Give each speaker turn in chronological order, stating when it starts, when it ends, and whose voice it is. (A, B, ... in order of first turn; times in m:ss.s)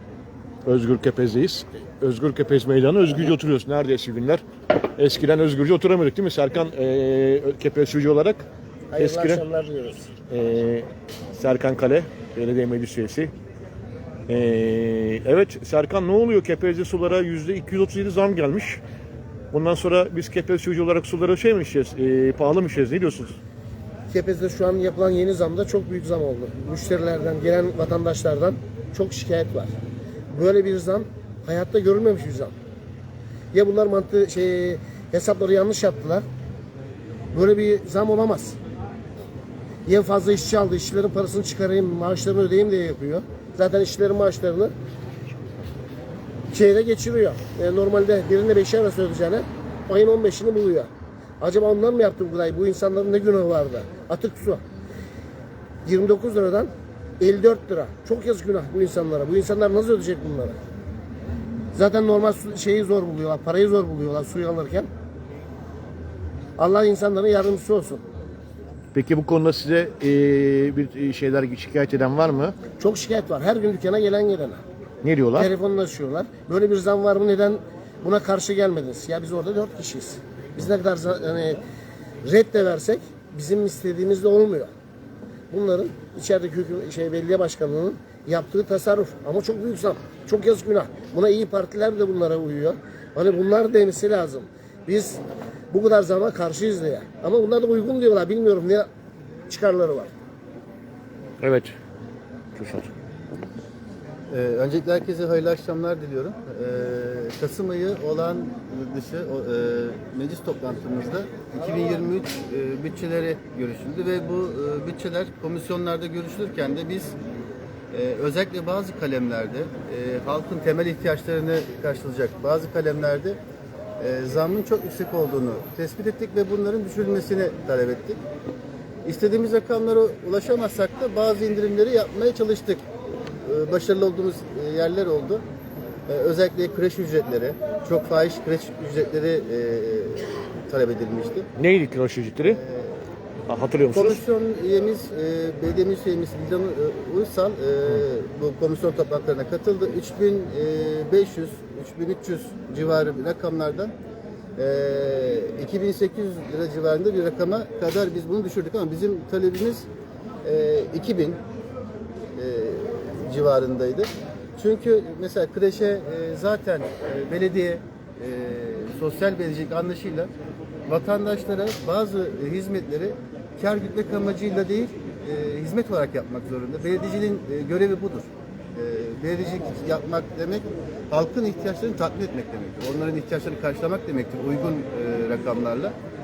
0:00.7-0:04.4 A
0:05.0-0:08.5 A
0:08.9-0:10.1 B
0:09.0-0:09.4 A
0:10.3-0:13.3 A
0:14.3-0:18.8 A
0:19.5-0:23.4 A
0:24.1-0:29.7 B
0:30.3-0:32.5 B
0:33.5-0:36.3 B
0:37.3-0:38.6 B
0:39.9-0:44.7 B
0:46.5-0:54.6 B
0:55.8-1:00.6 B
1:01.7-1:04.9 B
1:06.6-1:08.0 B
1:08.9-1:12.6 A
1:12.8-1:14.6 B
1:15.0-1:15.5 A
1:15.4-1:21.6 B
1:22.2-1:24.7 B
1:25.5-1:35.2 B
1:35.7-1:38.9 B
1:39.5-1:40.1 B
1:41.4-1:41.7 A
1:42.6-1:42.9 A
1:44.3-1:57.2 C
1:57.9-2:03.4 C
2:04.0-2:08.2 C
2:09.0-2:12.8 C
2:13.4-2:15.4 C
2:16.1-2:21.5 C
2:21.6-2:22.6 A
2:22.4-2:23.0 C
2:23.5-2:24.2 A
2:23.9-2:33.9 C
2:34.6-2:39.9 C
2:40.4-2:41.4 C
2:42.4-2:50.3 C
2:50.9-3:06.0 C